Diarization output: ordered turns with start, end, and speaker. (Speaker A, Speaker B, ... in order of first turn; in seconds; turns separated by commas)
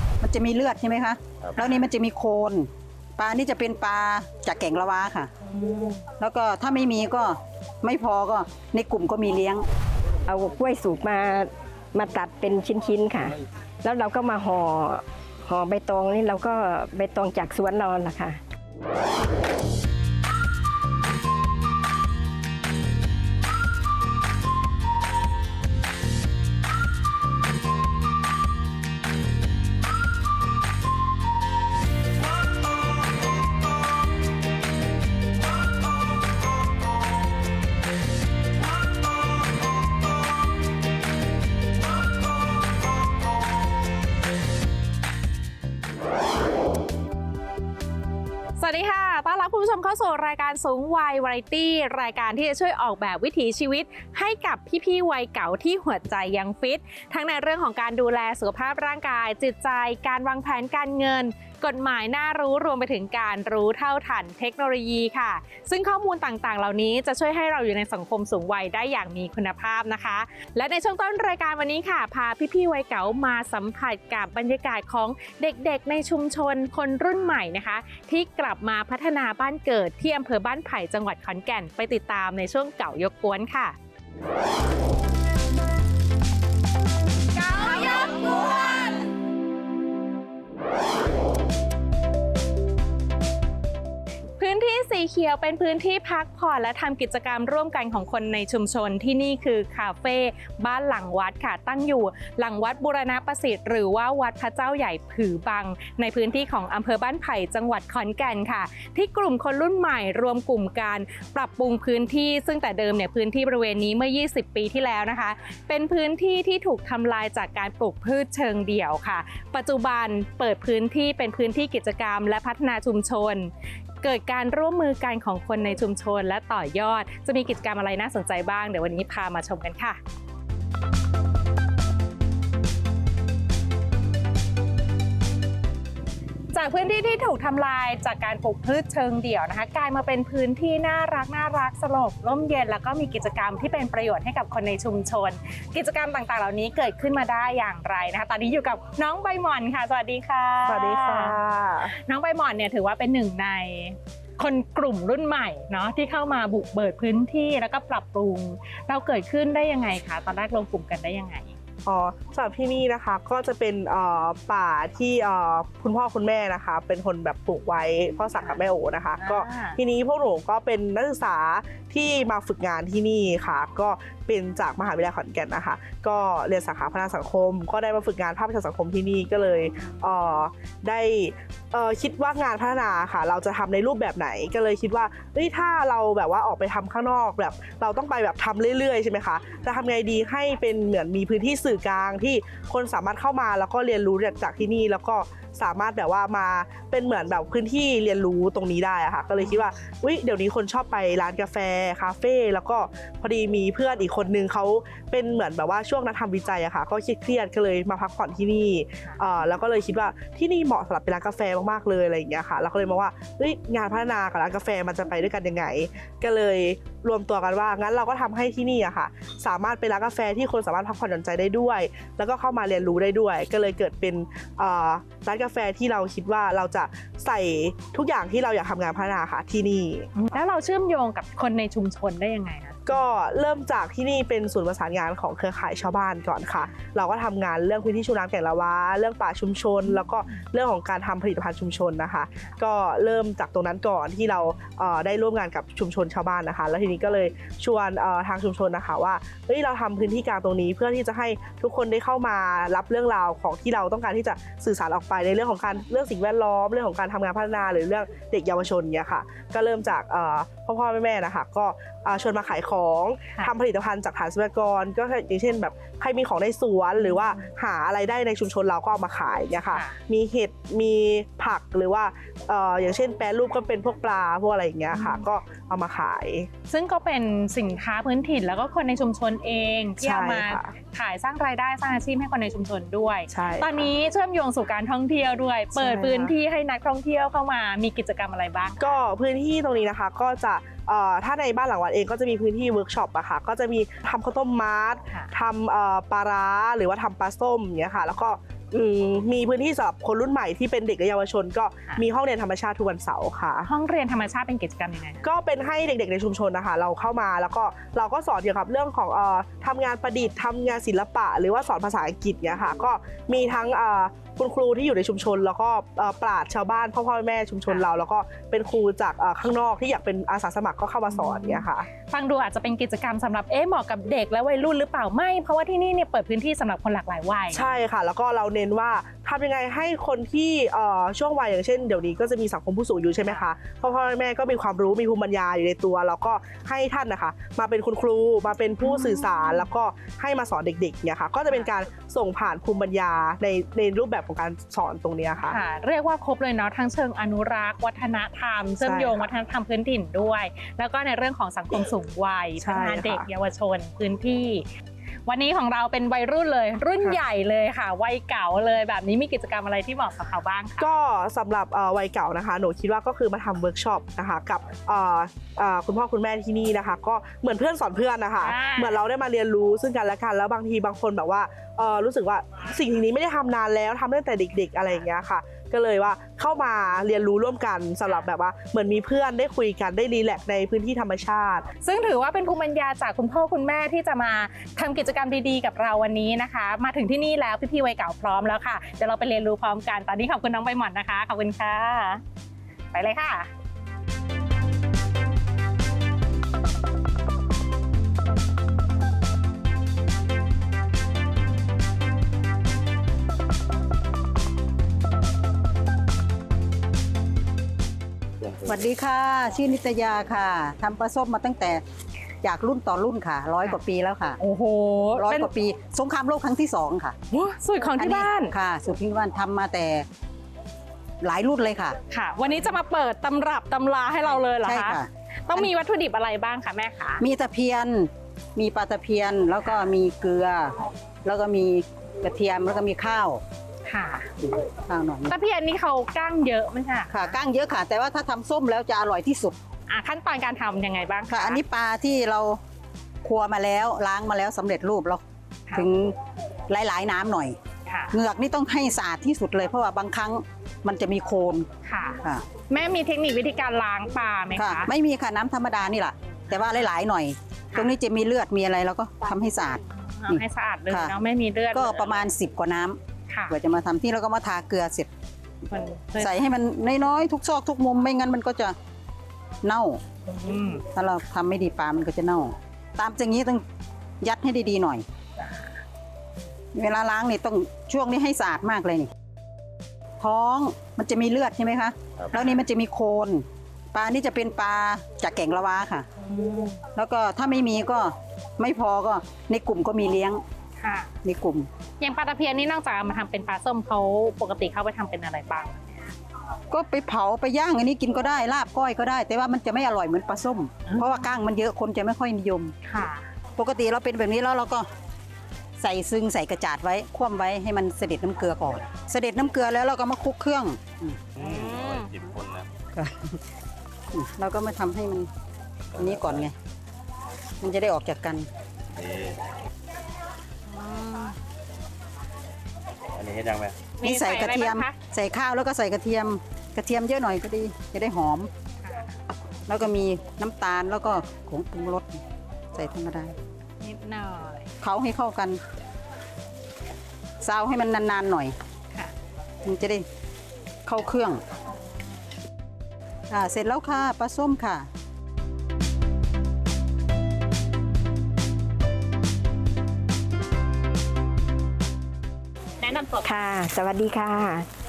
Speaker A: 0.2-5.3, Speaker B: 5.6-5.9, Speaker A: 6.2-9.7, Speaker C: 10.3-18.4, Speaker B: 48.6-83.8, Speaker B: 87.6-88.5, Speaker B: 94.4-123.5, Speaker B: 124.0-130.0, Speaker B: 136.5-151.3, Speaker D: 150.7-151.9, Speaker B: 151.9-161.6, Speaker D: 161.8-230.1, Speaker B: 169.2-169.8, Speaker B: 230.2-232.8, Speaker D: 232.9-276.5, Speaker B: 274.9-275.2, Speaker B: 276.7-289.0, Speaker D: 280.0-280.7, Speaker D: 283.3-283.7, Speaker D: 285.7-286.3, Speaker D: 288.8-303.7, Speaker B: 303.6-305.3, Speaker D: 305.2-321.9, Speaker B: 321.1-327.7, Speaker D: 327.5-345.6, Speaker B: 338.8-339.6, Speaker B: 345.4-354.6, Speaker D: 348.8-349.2, Speaker D: 352.6-353.2, Speaker B: 355.2-360.9, Speaker D: 360.8-381.7, Speaker B: 368.4-369.0, Speaker B: 381.8-392.2, Speaker B: 392.9-393.5, Speaker A: 408.6-411.8, Speaker A: 412.4-414.4, Speaker B: 414.4-415.5, Speaker A: 415.1-417.1, Speaker B: 417.3-418.5, Speaker A: 418.0-420.1, Speaker A: 421.2-421.9, Speaker B: 422.1-427.2, Speaker A: 424.6-425.7, Speaker A: 427.2-433.4, Speaker B: 433.9-434.3, Speaker A: 434.6-435.3, Speaker B: 435.3-437.3, Speaker A: 437.1-439.6, Speaker B: 439.9-441.6, Speaker A: 441.3-442.6, Speaker A: 443.2-445.2, Speaker A: 445.7-446.1, Speaker A: 446.7-447.6, Speaker B: 447.9-448.1, Speaker A: 448.1-451.7, Speaker B: 451.9-454.9, Speaker A: 454.5-459.8, Speaker B: 460.2-462.0, Speaker A: 460.9-461.1, Speaker A: 461.7-463.0, Speaker B: 463.3-463.6, Speaker A: 463.5-465.1, Speaker B: 465.7-466.4, Speaker A: 466.2-468.8, Speaker A: 469.6-470.0, Speaker B: 470.3-470.8, Speaker A: 470.9-473.6, Speaker A: 474.2-475.0, Speaker A: 476.7-479.1, Speaker A: 480.2-486.1, Speaker B: 486.3-486.8, Speaker A: 486.9-490.4, Speaker B: 490.8-491.1, Speaker A: 491.2-491.7, Speaker B: 492.0-495.8, Speaker A: 496.7-502.7, Speaker B: 502.9-503.2, Speaker A: 503.6-504.9, Speaker A: 505.8-511.2, Speaker E: 511.4-512.7, Speaker B: 511.4-512.1, Speaker A: 512.9-513.4, Speaker A: 514.1-515.3, Speaker E: 516.0-516.4, Speaker A: 516.0-516.5, Speaker A: 517.6-518.5, Speaker E: 518.9-519.4, Speaker B: 520.7-521.4, Speaker E: 523.1-523.8, Speaker B: 524.0-524.9, Speaker A: 524.0-528.5, Speaker B: 528.8-529.1, Speaker A: 529.7-532.2, Speaker A: 532.7-533.3, Speaker B: 533.8-534.7, Speaker A: 534.8-535.6, Speaker A: 537.4-538.5, Speaker A: 539.6-540.1, Speaker A: 540.9-541.4, Speaker A: 543.3-544.9, Speaker C: 553.1-554.6